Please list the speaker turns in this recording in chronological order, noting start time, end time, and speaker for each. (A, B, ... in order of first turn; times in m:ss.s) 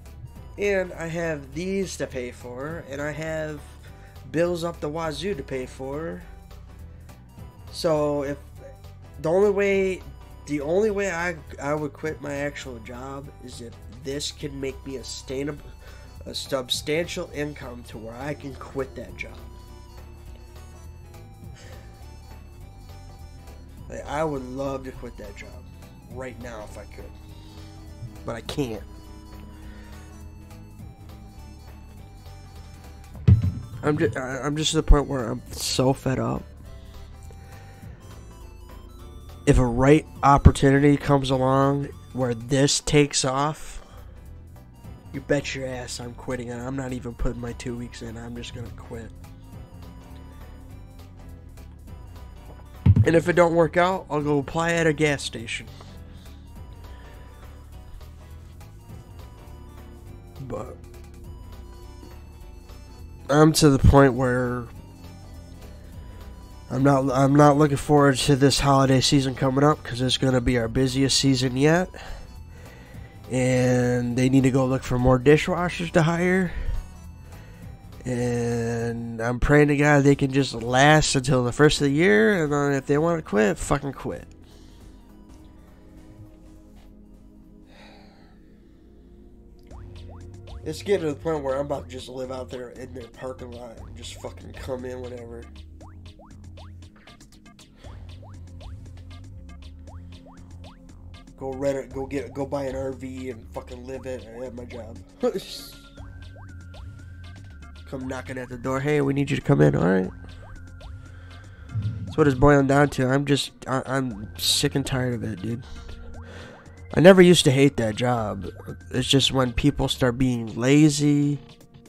0:00.6-0:06.3 A
0:07.7-0:08.5 A
0:09.2-0:15.6 A
0:16.2-0:19.4 A
0:23.9-0:27.1 A
0:28.2-0:28.8 A
0:33.8-0:36.4 A
0:39.4-0:43.8 A
0:45.1-0:49.1 A
0:53.0-0:55.7 A
1:00.4-1:00.8 A
1:03.3-1:04.7 A
1:06.7-1:11.9 A
1:13.3-1:16.5 A
1:18.0-1:24.3 A
1:30.6-1:35.5 A
1:41.4-1:45.8 A
1:47.8-1:50.1 A
1:52.1-1:55.6 A
1:56.9-2:01.4 A